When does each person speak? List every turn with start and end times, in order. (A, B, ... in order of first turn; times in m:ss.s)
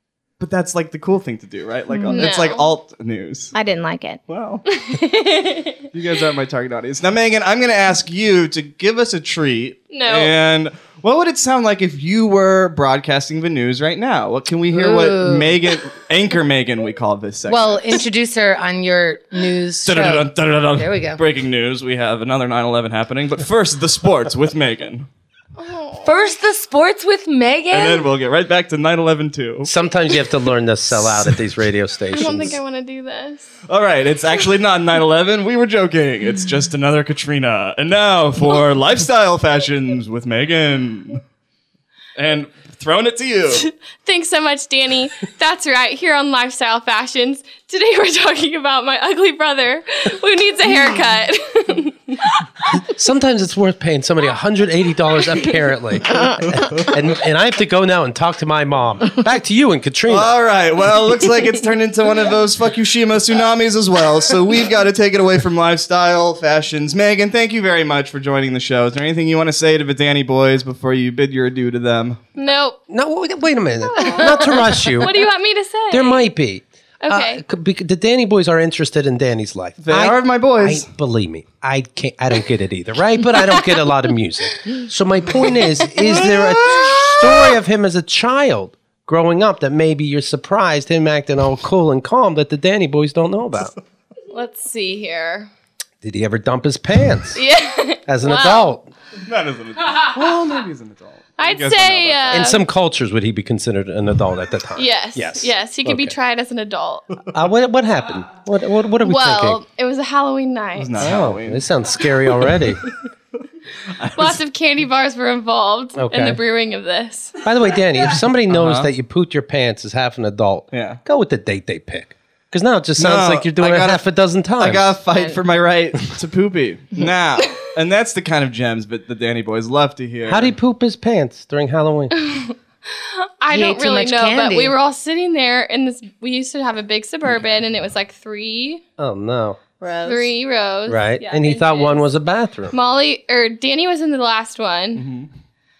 0:00.4-0:03.5 A
0:01.9-0:02.4 B
0:02.1-0:02.7 C
0:03.5-0:04.2 B
0:04.3-0:04.7 A
0:04.7-0:05.8 C
0:05.9-0:18.0 A
0:09.9-0:10.3 C
0:14.7-0:15.6 D
0:17.5-0:21.2 D
0:19.8-0:25.1 A
0:25.6-0:26.1 C
0:26.0-0:28.1 D
0:27.7-0:29.7 A
0:29.6-0:32.6 E
0:31.0-0:31.4 A
0:32.1-0:33.5 C
0:32.2-0:32.6 A
0:33.7-0:41.2 A
0:42.2-0:43.7 A
0:43.7-0:52.3 C
0:52.8-1:00.3 E
0:56.1-0:56.8 B
0:56.2-0:57.0 A
1:00.1-1:12.2 A
1:12.4-1:12.8 C
1:12.9-1:15.2 E
1:13.8-1:16.3 C
1:15.9-1:33.7 E
1:17.0-1:17.4 C
1:19.8-1:20.8 A
1:26.0-1:27.3 A
1:34.3-1:35.5 C
1:36.0-1:37.4 E
1:37.3-1:38.7 C
1:38.1-1:38.9 E
1:39.2-1:42.6 A
1:41.4-1:42.6 C
1:42.3-1:46.1 E
1:44.8-1:47.1 C
1:47.3-1:49.6 E
1:49.0-1:51.0 C
1:50.8-1:51.6 A
1:51.0-1:52.8 E
1:54.0-1:54.4 A
1:54.2-1:57.4 C
1:55.9-1:56.4 E
1:57.4-2:05.0 E
1:58.5-1:58.9 A
2:00.7-2:01.0 A
2:03.0-2:04.0 A
2:04.6-2:10.5 A
2:05.1-2:05.4 B
2:10.3-2:12.1 E
2:12.2-2:12.5 C
2:13.4-2:18.8 C
2:13.5-2:14.8 D
2:19.0-2:19.6 E
2:19.8-2:20.3 B
2:20.0-2:22.1 C
2:20.9-2:22.7 E
2:22.7-2:25.1 C
2:24.9-2:25.3 A